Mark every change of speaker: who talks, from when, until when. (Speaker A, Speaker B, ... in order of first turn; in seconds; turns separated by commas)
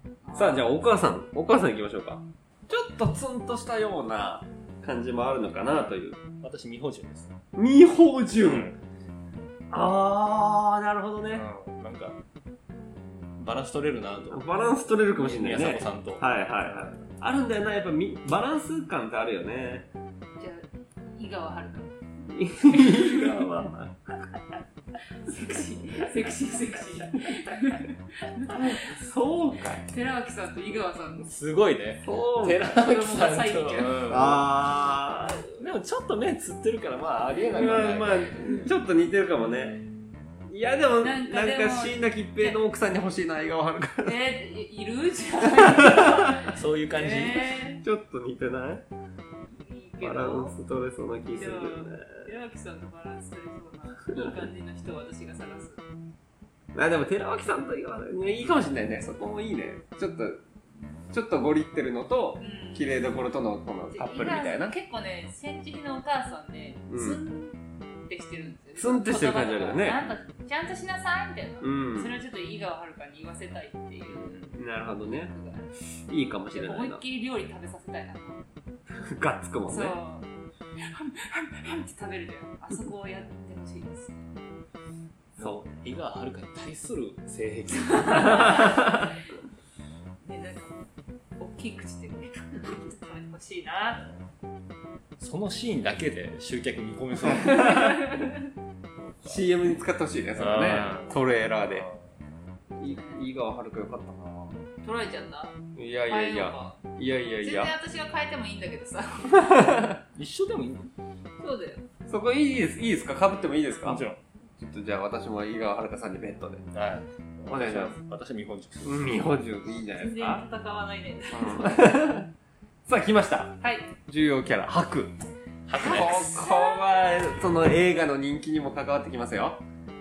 Speaker A: 0.2-0.6, Speaker B: 0.3-6.2, Speaker C: 6.4-7.3, Speaker B: 7.5-8.7, Speaker C: 8.4-8.8, Speaker B: 9.7-11.5, Speaker C: 11.3-12.2, Speaker C: 13.4-17.0, Speaker B: 14.3-19.9, Speaker A: 20.4-21.9, Speaker B: 22.3-24.2, Speaker A: 22.7-23.4, Speaker A: 25.2-29.0, Speaker B: 28.5-29.9, Speaker A: 29.9-31.3, Speaker C: 31.2-34.5, Speaker B: 32.0-32.6, Speaker A: 32.6-34.1, Speaker B: 34.1-35.4, Speaker C: 35.6-38.6, Speaker B: 37.5-39.8, Speaker C: 39.4-40.4, Speaker B: 40.5-44.1, Speaker A: 41.0-42.6, Speaker A: 44.0-47.8, Speaker B: 45.5-46.5, Speaker C: 46.4-47.6, Speaker B: 47.8-48.9, Speaker A: 49.5-50.5, Speaker B: 50.0-52.3, Speaker A: 51.4-55.8, Speaker B: 56.7-60.4, Speaker B: 61.1-64.7, Speaker A: 62.4-63.1, Speaker A: 63.9-67.6, Speaker B: 66.9-67.2, Speaker A: 68.1-74.4, Speaker B: 68.8-70.0, Speaker C: 70.0-70.4, Speaker B: 71.6-72.2, Speaker C: 74.1-74.6, Speaker B: 74.5-75.3, Speaker A: 75.3-75.7, Speaker B: 76.1-77.0, Speaker A: 76.5-78.4, Speaker B: 79.0-80.0, Speaker A: 79.7-80.3, Speaker A: 80.8-84.2, Speaker B: 85.4-85.6, Speaker C: 85.4-88.7, Speaker A: 88.1-89.1, Speaker B: 88.5-89.0, Speaker A: 90.2-94.0, Speaker C: 95.2-98.0, Speaker B: 97.5-98.0, Speaker A: 97.6-98.4, Speaker C: 99.0-99.6, Speaker B: 99.2-101.9, Speaker C: 100.4-102.1, Speaker A: 102.7-103.2, Speaker B: 102.8-104.6, Speaker A: 104.8-105.5, Speaker B: 105.8-107.7, Speaker A: 106.1-106.8, Speaker A: 107.4-109.6, Speaker B: 109.3-110.0, Speaker C: 110.1-110.9, Speaker A: 111.4-111.8, Speaker B: 112.1-114.0, Speaker C: 113.8-114.2, Speaker B: 114.6-116.7, Speaker C: 116.7-119.0, Speaker B: 117.5-118.0, Speaker B: 118.8-120.5, Speaker A: 120.0-121.9, Speaker B: 121.3-122.3, Speaker B: 122.9-125.1, Speaker A: 123.6-123.9, Speaker C: 125.7-126.6, Speaker B: 125.8-129.6, Speaker A: 126.4-127.2